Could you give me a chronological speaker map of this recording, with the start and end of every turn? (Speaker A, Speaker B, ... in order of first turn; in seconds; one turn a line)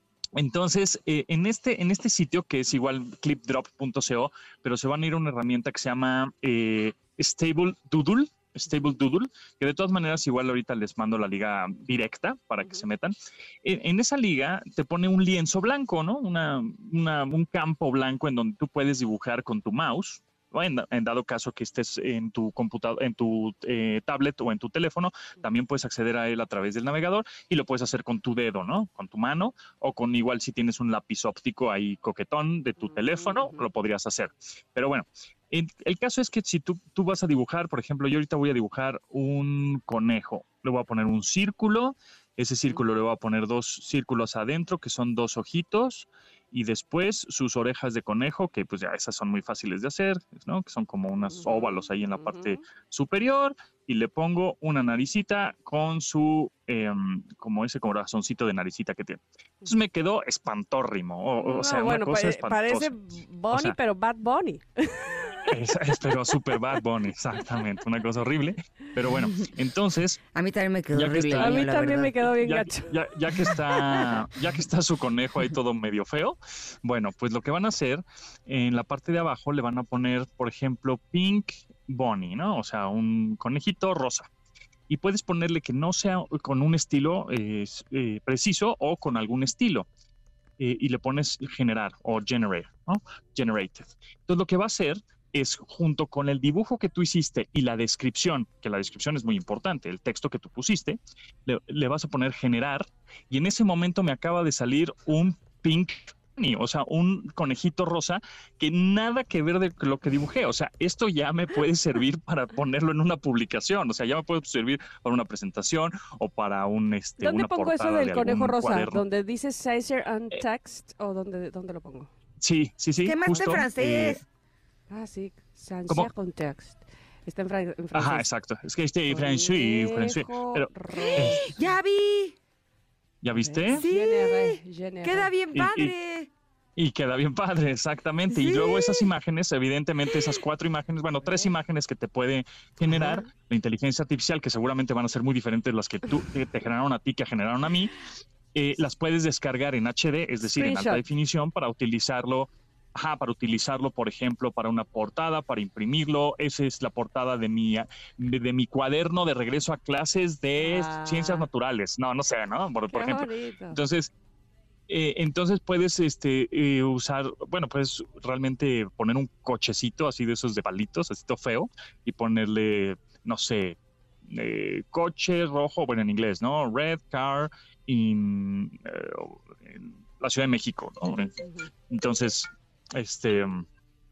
Speaker A: 0.4-63.0
Speaker B: 32.8-33.6
Speaker B: 51.3-52.6
Speaker B: 61.4-65.5
Speaker A: 63.5-63.8
Speaker A: 65.5-70.2
Speaker C: 70.3-72.2
Speaker A: 70.9-71.7
Speaker B: 71.4-72.9
Speaker A: 72.3-84.3
Speaker A: 84.9-89.9
Speaker A: 90.6-119.0
Speaker B: 117.2-122.1
Speaker A: 122.4-124.2
Speaker C: 123.0-124.2
Speaker B: 124.9-128.3
Speaker A: 127.9-131.5
Speaker B: 129.1-131.5
Speaker C: 131.2-132.4
Speaker A: 133.2-133.8
Speaker B: 133.4-135.3
Speaker C: 133.7-136.3
Speaker A: 135.5-135.9
Speaker A: 136.8-147.9
Speaker C: 138.3-139.1
Speaker A: 148.6-164.1
Speaker B: 150.5-151.0
Speaker B: 160.6-161.5
Speaker B: 162.9-163.8
Speaker A: 164.9-181.4
Speaker B: 181.4-181.7
Speaker A: 181.9-183.7